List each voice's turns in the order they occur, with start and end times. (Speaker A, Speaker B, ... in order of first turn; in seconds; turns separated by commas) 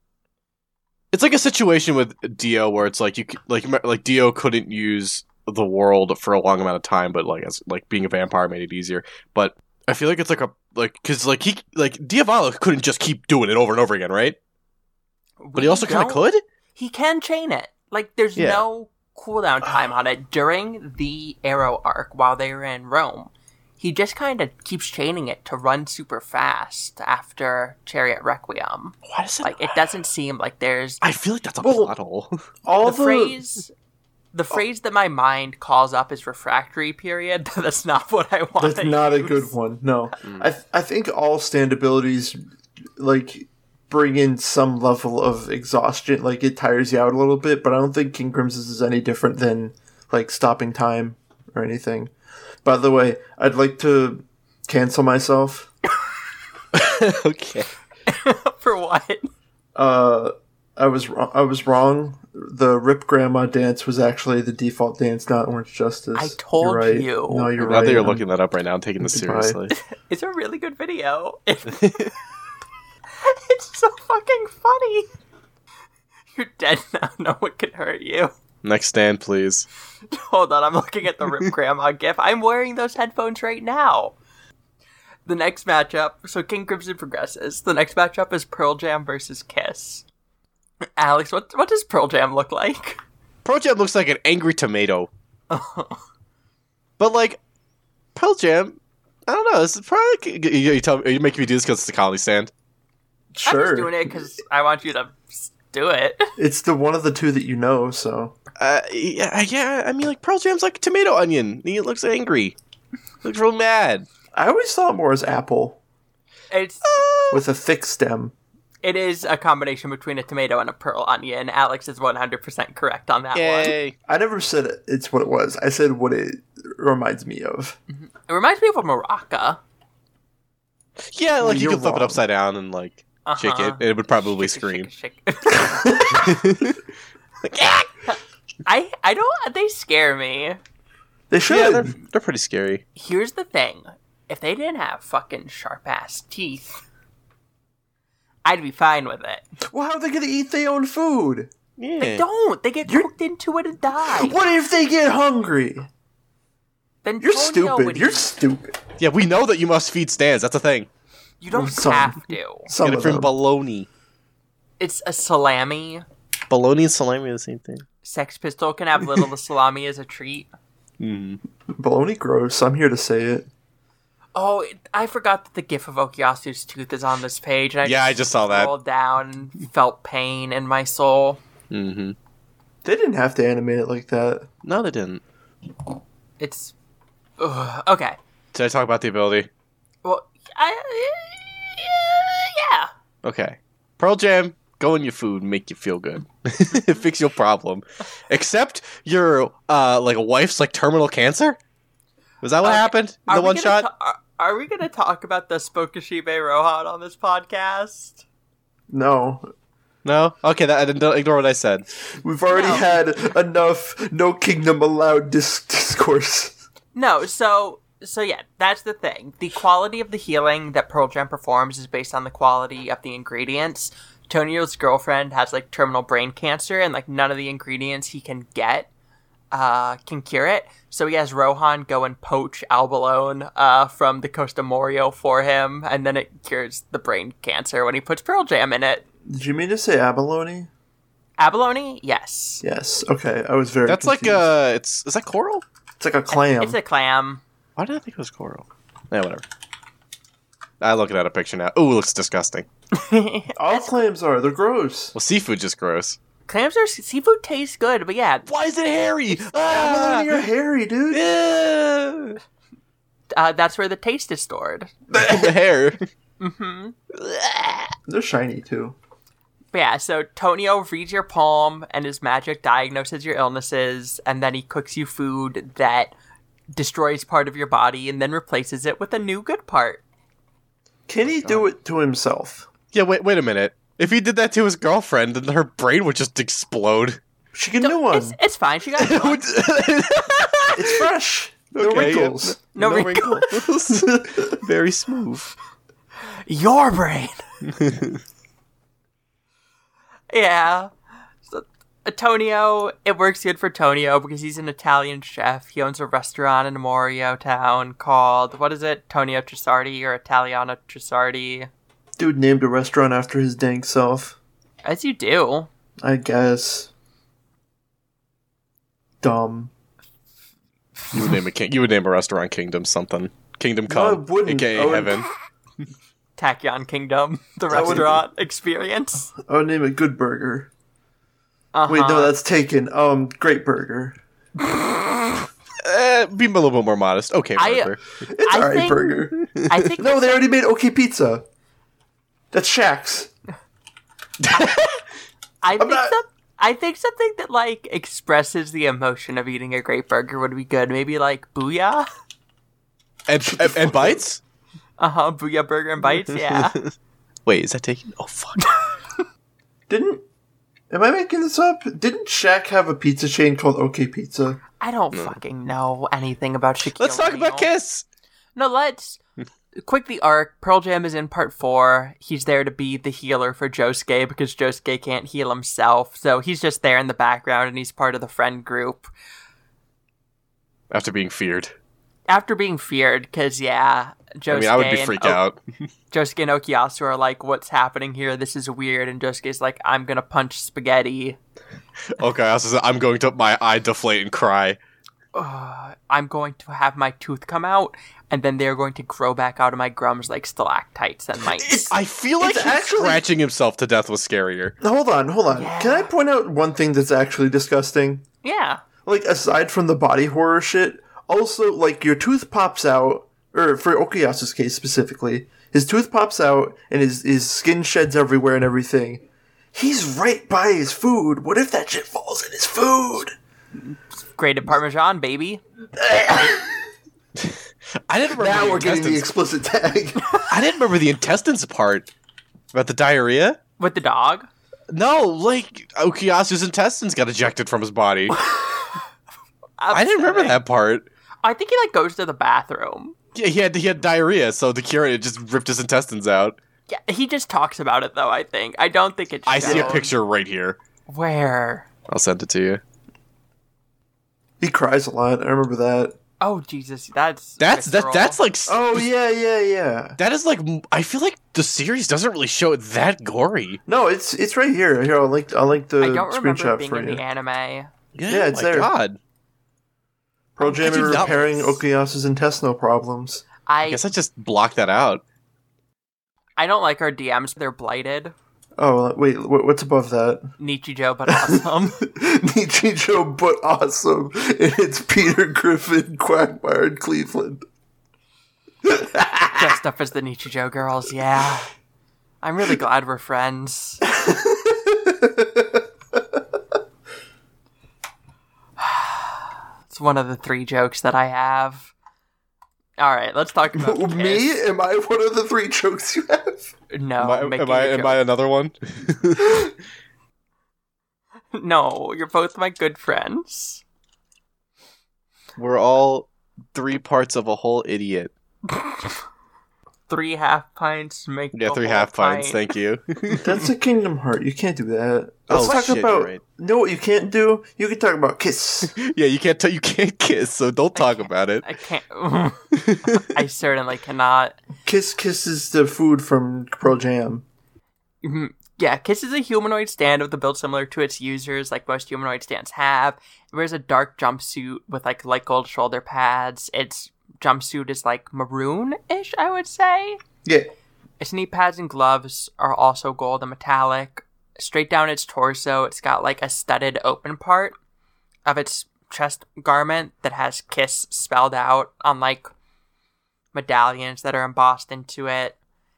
Speaker A: 1.1-14.4, Speaker B: 15.4-31.0, Speaker A: 15.6-16.4, Speaker A: 18.4-18.6, Speaker A: 29.1-29.8, Speaker A: 31.0-32.4, Speaker C: 31.6-31.9, Speaker C: 32.6-33.4, Speaker B: 32.7-33.7, Speaker B: 34.3-39.5, Speaker C: 38.6-42.4, Speaker C: 43.0-52.1, Speaker C: 52.6-55.7, Speaker A: 56.7-57.7, Speaker B: 58.1-59.3, Speaker C: 59.7-68.2, Speaker B: 66.1-67.5, Speaker A: 67.6-69.7, Speaker C: 69.0-69.6, Speaker B: 69.7-72.1, Speaker A: 71.7-72.1, Speaker B: 73.2-75.1, Speaker B: 76.3-78.3, Speaker A: 78.6-79.7, Speaker B: 80.1-84.1, Speaker B: 85.2-90.0, Speaker B: 91.0-93.0, Speaker A: 93.4-95.1, Speaker B: 95.5-96.0, Speaker A: 97.0-97.4, Speaker A: 98.1-102.5, Speaker C: 103.3-104.3, Speaker B: 103.4-106.3, Speaker C: 106.4-108.4, Speaker A: 108.6-112.6, Speaker A: 113.2-114.1, Speaker C: 114.3-115.8, Speaker B: 116.5-117.0, Speaker A: 116.8-117.4, Speaker C: 117.3-118.3, Speaker B: 118.8-123.7, Speaker A: 123.3-124.0, Speaker C: 124.1-127.8, Speaker B: 127.9-129.6, Speaker A: 131.1-134.9, Speaker C: 131.4-132.2, Speaker B: 133.2-136.4, Speaker C: 135.5-136.3, Speaker A: 136.1-136.8, Speaker A: 137.4-137.9, Speaker B: 138.1-140.6, Speaker C: 141.3-141.9, Speaker A: 141.4-142.8, Speaker B: 142.9-146.8, Speaker B: 148.4-149.4, Speaker C: 149.6-151.5, Speaker A: 151.8-152.2, Speaker B: 152.0-154.4, Speaker C: 152.8-153.1, Speaker C: 154.1-155.9, Speaker B: 157.0-158.3, Speaker C: 157.2-158.8, Speaker A: 159.0-160.9, Speaker B: 161.4-162.7, Speaker C: 161.5-162.2, Speaker C: 162.7-163.3, Speaker A: 162.8-163.9, Speaker B: 164.8-166.1, Speaker A: 166.5-167.8, Speaker B: 168.0-170.5, Speaker A: 171.0-171.4, Speaker C: 171.7-173.5, Speaker B: 174.3-181.4, Speaker A: 177.8-178.7, Speaker A: 181.7-182.2, Speaker C: 182.8-184.5, Speaker A: 184.6-185.2, Speaker B: 186.4-186.7, Speaker B: 187.4-188.2, Speaker A: 188.5-189.5, Speaker B: 190.0-192.9, Speaker A: 193.2-201.6, Speaker A: 202.4-203.9, Speaker B: 202.6-208.2, Speaker C: 208.9-209.5, Speaker A: 210.0-211.8, Speaker C: 212.2-216.6, Speaker B: 212.5-213.0, Speaker B: 216.9-228.9, Speaker B: 229.5-239.0, Speaker C: 239.2-240.7, Speaker B: 241.4-242.6, Speaker C: 242.6-244.4, Speaker A: 243.8-245.6, Speaker C: 246.0-246.8, Speaker B: 246.3-247.4, Speaker A: 247.8-249.4, Speaker A: 250.8-252.7, Speaker B: 252.9-253.9, Speaker C: 253.6-255.1, Speaker A: 255.1-256.2, Speaker B: 256.5-258.5, Speaker A: 258.5-260.4, Speaker C: 259.7-261.2, Speaker A: 261.1-262.4, Speaker B: 263.3-264.9, Speaker C: 265.1-265.5, Speaker A: 265.1-266.1, Speaker B: 266.4-267.0, Speaker A: 267.1-267.9, Speaker C: 268.1-269.0, Speaker B: 269.7-276.1, Speaker B: 276.7-280.0, Speaker C: 281.1-282.7, Speaker A: 282.9-287.2, Speaker C: 287.5-288.4, Speaker B: 287.8-289.5, Speaker A: 289.0-291.0, Speaker C: 290.7-292.6, Speaker A: 291.7-295.5, Speaker B: 292.8-293.5, Speaker C: 293.9-294.6, Speaker B: 296.4-297.4, Speaker A: 297.8-298.2, Speaker B: 300.3-300.9, Speaker B: 301.4-311.7, Speaker C: 312.2-314.4, Speaker B: 314.8-315.7, Speaker C: 316.0-316.9, Speaker C: 319.2-319.7, Speaker A: 321.1-325.3, Speaker C: 323.9-325.2, Speaker B: 326.4-329.3, Speaker C: 327.7-328.2, Speaker C: 329.4-330.7, Speaker B: 331.7-332.3, Speaker C: 331.9-334.2, Speaker B: 334.7-335.1, Speaker A: 335.8-338.0, Speaker B: 337.6-340.4, Speaker C: 338.2-339.4, Speaker A: 339.4-339.9, Speaker C: 340.0-341.4, Speaker C: 342.5-343.3, Speaker B: 344.5-345.0, Speaker B: 345.6-352.0, Speaker C: 345.8-346.1, Speaker A: 353.3-354.4, Speaker C: 353.4-354.2, Speaker B: 355.0-356.8, Speaker A: 356.1-356.9, Speaker A: 357.5-358.6, Speaker B: 358.6-358.9, Speaker C: 359.9-360.2, Speaker C: 360.9-364.6, Speaker B: 364.8-367.7, Speaker A: 367.0-368.0, Speaker B: 368.6-369.2, Speaker B: 369.8-379.1, Speaker A: 380.9-381.7, Speaker B: 382.3-385.4, Speaker A: 384.5-385.6, Speaker B: 386.1-391.4, Speaker A: 392.1-394.8, Speaker B: 395.3-401.9, Speaker A: 401.5-404.8, Speaker C: 402.4-403.2, Speaker C: 404.8-408.2, Speaker B: 405.5-406.1, Speaker B: 408.4-408.8, Speaker C: 409.1-423.3, Speaker B: 423.9-425.6, Speaker C: 426.0-426.9, Speaker A: 428.1-429.3, Speaker C: 428.3-430.2, Speaker A: 430.5-432.1, Speaker A: 432.7-433.6, Speaker B: 433.8-434.5, Speaker A: 434.9-438.4, Speaker B: 438.3-439.0, Speaker B: 439.8-440.6, Speaker A: 439.9-441.1, Speaker B: 441.4-443.1, Speaker A: 443.4-446.6, Speaker B: 446.9-450.1, Speaker A: 449.5-450.8, Speaker C: 449.6-450.0, Speaker B: 451.1-451.9, Speaker A: 452.1-452.8, Speaker C: 454.6-456.1, Speaker B: 456.4-458.4, Speaker A: 457.6-459.0, Speaker C: 458.7-460.2, Speaker A: 460.2-463.8, Speaker C: 463.9-467.2, Speaker B: 466.0-467.9, Speaker A: 468.1-469.2, Speaker C: 468.3-468.9, Speaker C: 470.6-473.4, Speaker A: 470.6-471.8, Speaker B: 473.6-474.0, Speaker A: 473.9-475.2, Speaker B: 476.6-478.3, Speaker C: 478.8-480.5, Speaker B: 480.6-482.0, Speaker C: 481.3-487.6, Speaker C: 488.9-489.5, Speaker B: 489.5-491.7, Speaker B: 492.4-494.0, Speaker C: 494.1-496.4, Speaker B: 498.8-501.9, Speaker B: 503.0-504.6, Speaker C: 503.7-506.7, Speaker B: 506.9-508.2, Speaker A: 507.2-509.7, Speaker B: 511.5-513.8, Speaker A: 515.6-518.3, Speaker B: 518.7-519.1, Speaker B: 520.1-522.6, Speaker A: 521.5-523.5, Speaker C: 523.4-528.9, Speaker A: 525.5-526.4, Speaker A: 528.9-531.7, Speaker B: 530.9-534.6, Speaker A: 532.8-533.2, Speaker C: 534.9-537.4, Speaker B: 538.2-550.2, Speaker B: 551.2-557.8, Speaker B: 558.5-562.5, Speaker B: 563.5-565.6